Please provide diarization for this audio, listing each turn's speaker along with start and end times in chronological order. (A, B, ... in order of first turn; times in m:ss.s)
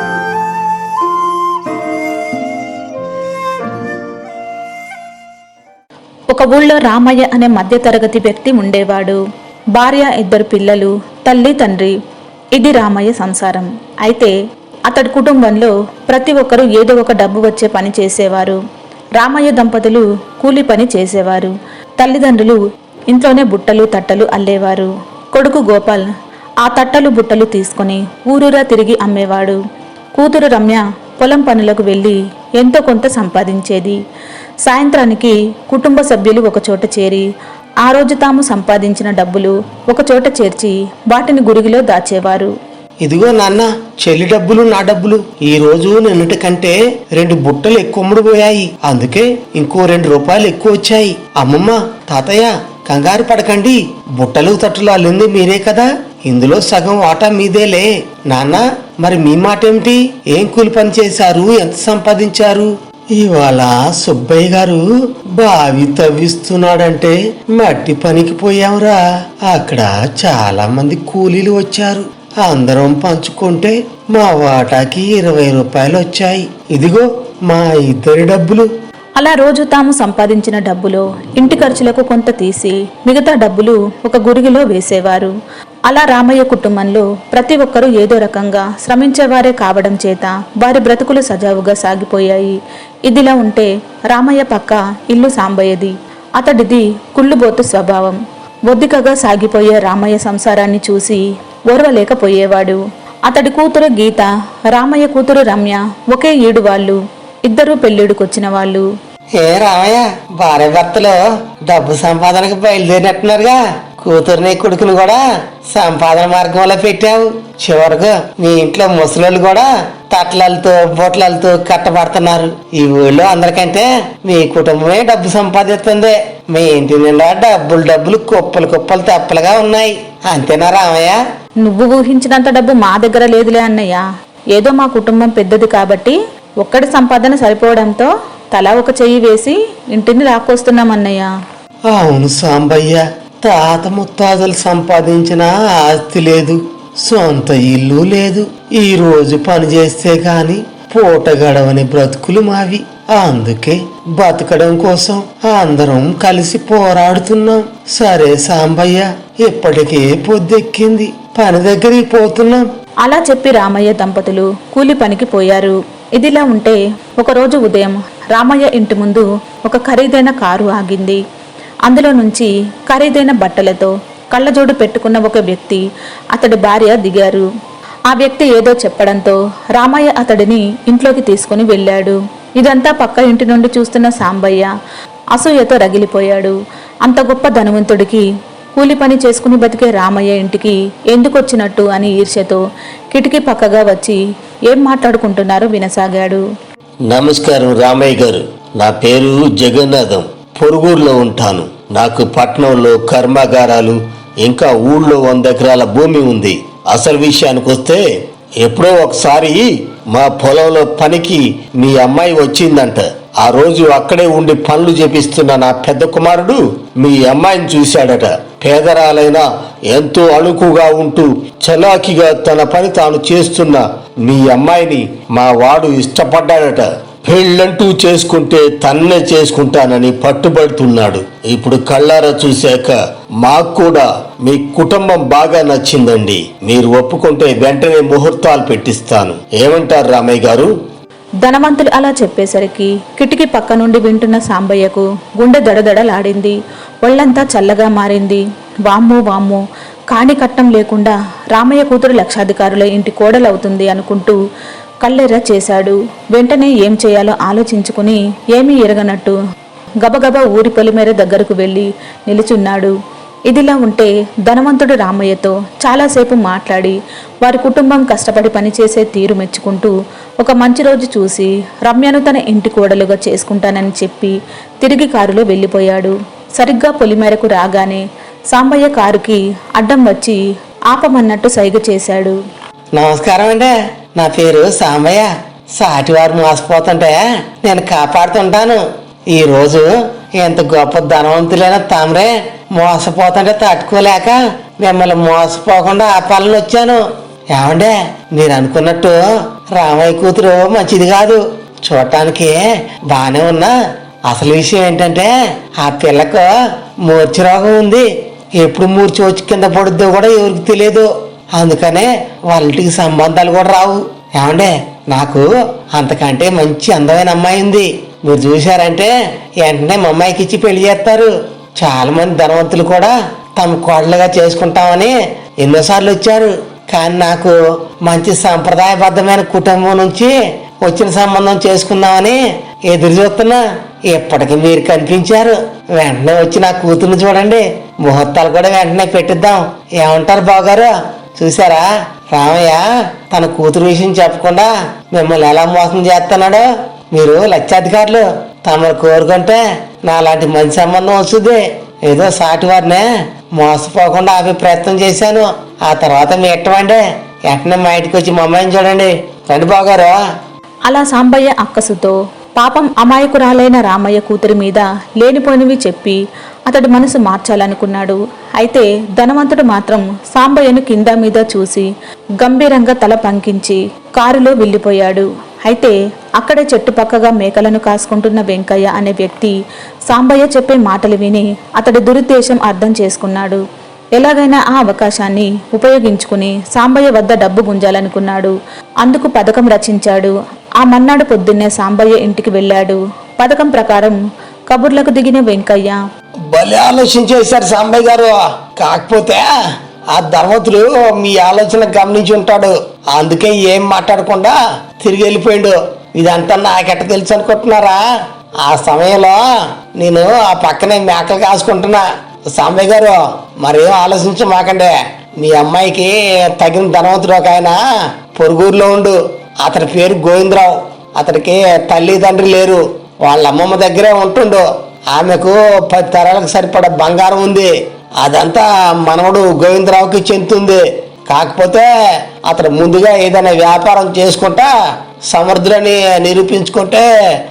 0:06.3-0:09.2 A
0:09.7-0:11.9 A
0:12.5-0:14.3 A
0:14.9-0:18.6 A
0:19.2-0:26.1 A
0:26.6-0:29.6 A
0:30.1-0:34.0 A
0:34.6-0:37.2 A
0:37.8-0:42.5 A
0:43.0-1:18.7 B
1:19.2-1:25.3 A
1:25.9-1:48.8 A
1:49.4-2:11.2 B
2:11.6-2:21.3 A
2:21.9-2:42.6 B
2:43.0-2:51.2 A
2:51.8-2:55.8 A
2:56.3-2:57.4 A
2:58.1-3:04.7 A
3:05.3-3:08.2 A
3:08.8-3:12.6 A
3:13.1-3:16.4 A
3:17.1-3:22.5 B
3:17.6-3:18.1 C
3:18.9-3:23.9 C
3:23.6-3:23.9 B
3:24.5-3:28.0 C
3:25.9-3:26.4 B
3:27.0-3:27.2 B
3:28.6-3:29.5 C
3:30.2-3:30.8 B
3:30.2-3:39.4 C
3:35.3-3:35.6 B
3:39.9-3:43.7 C
3:44.3-3:52.9 C
3:53.4-4:00.5 C
3:56.2-3:56.9 B
3:59.0-4:00.7 B
4:01.4-4:09.6 A
4:10.1-4:14.4 A
4:15.0-4:19.4 A
4:20.0-4:22.9 A
4:23.5-4:40.4 A
4:40.9-4:42.4 A
4:42.9-4:59.2 B
4:59.7-5:02.6 B
5:03.1-5:03.7 B
5:04.3-5:06.5 B
5:07.0-5:08.0 B
5:08.6-5:53.0 B
5:53.6-6:00.2 B
6:00.8-6:11.9 A
6:12.4-6:19.5 A
6:20.1-6:23.6 A
6:24.2-6:34.2 A
6:34.7-6:36.0 A
6:36.5-6:39.5 B
6:40.1-6:48.0 B
6:48.6-6:49.4 B
6:50.0-6:57.8 B
6:58.3-7:11.9 B
7:12.4-7:14.7 B
7:15.3-7:17.1 B